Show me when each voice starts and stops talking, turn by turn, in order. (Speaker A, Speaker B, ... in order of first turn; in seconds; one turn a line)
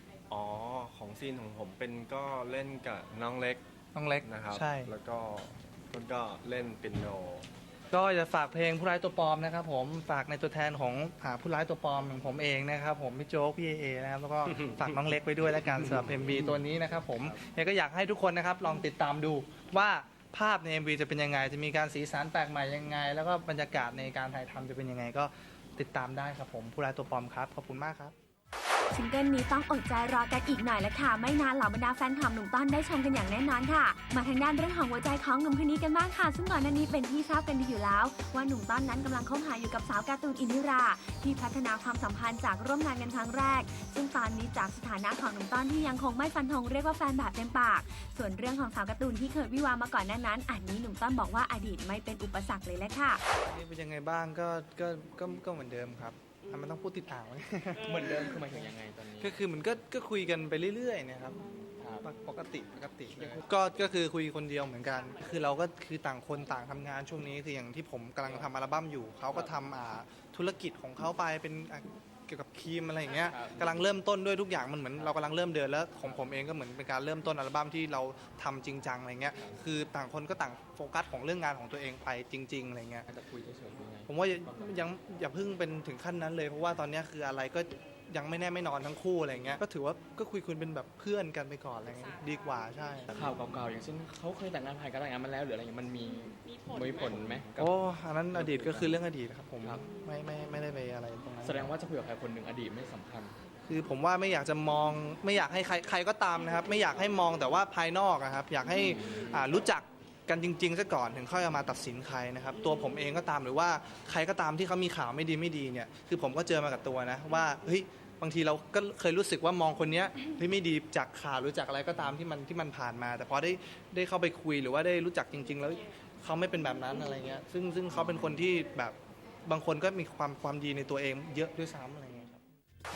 Speaker A: 0.3-3.6
Speaker B: 3.9-4.9
Speaker A: 4.2-7.5
Speaker B: 7.9-28.1
Speaker C: 28.9-53.3
Speaker B: 53.4-61.4
Speaker D: 57.8-59.4
Speaker D: 61.8-62.1
Speaker B: 62.0-83.1
Speaker D: 63.1-63.5
Speaker D: 73.2-73.8
Speaker D: 83.1-84.8
Speaker B: 84.1-93.3
Speaker D: 93.1-97.8
Speaker B: 97.6-101.7
Speaker D: 98.3-99.0
Speaker D: 101.4-103.3
Speaker B: 103.7-132.4
Speaker D: 108.8-109.5